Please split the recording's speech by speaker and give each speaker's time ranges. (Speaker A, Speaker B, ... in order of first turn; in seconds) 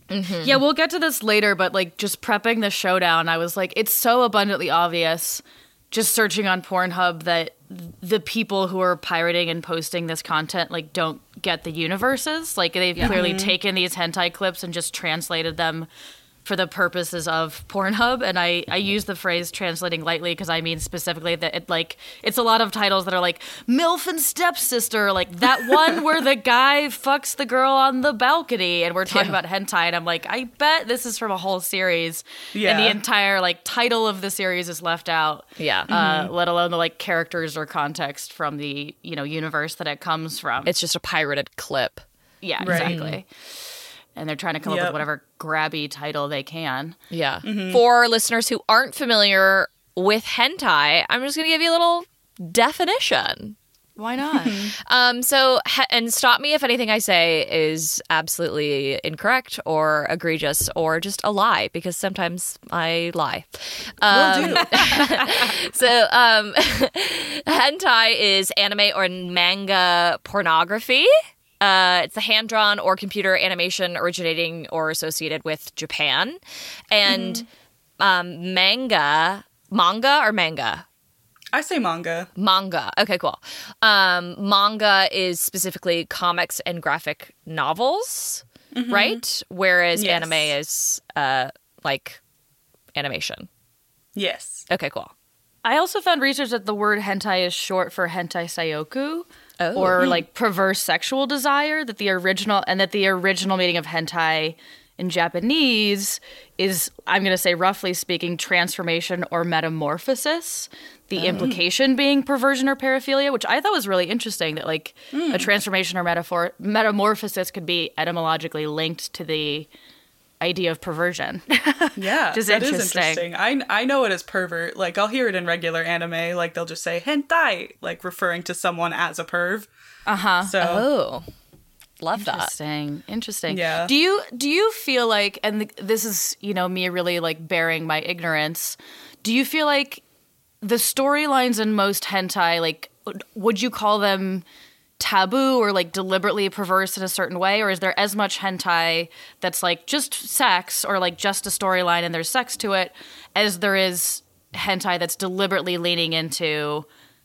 Speaker A: 0.1-0.6, 29.1-29.4, 35.6-35.9, 40.6-42.0, 42.6-43.2, 47.1-53.5, 54.9-71.1, 71.6-76.4, 76.9-77.5, 78.0-80.8, 82.3-92.2, 92.9-93.5, 94.7-95.1, 99.6-100.1, 111.2-111.5, 130.6-131.2, 132.0-132.5
Speaker B: 0.4-15.9, 16.4-40.7, 42.4-43.3, 44.1-47.0, 54.0-54.6, 64.6-65.2, 95.6-119.7, 120.4-123.2, 130.1-130.5, 132.2-140.0, 140.6-144.4, 145.0-156.9
Speaker C: 13.0-13.6, 32.5-33.0, 35.9-36.3, 42.6-42.9, 44.6-45.0, 47.4-47.8, 54.4-54.7, 64.1-64.9, 77.0-77.4, 81.5-82.3, 88.7-89.2, 89.9-90.5, 94.1-94.7, 100.0-100.2, 111.3-111.6, 115.1-115.5, 122.0-129.7, 130.4-130.8, 133.5-133.9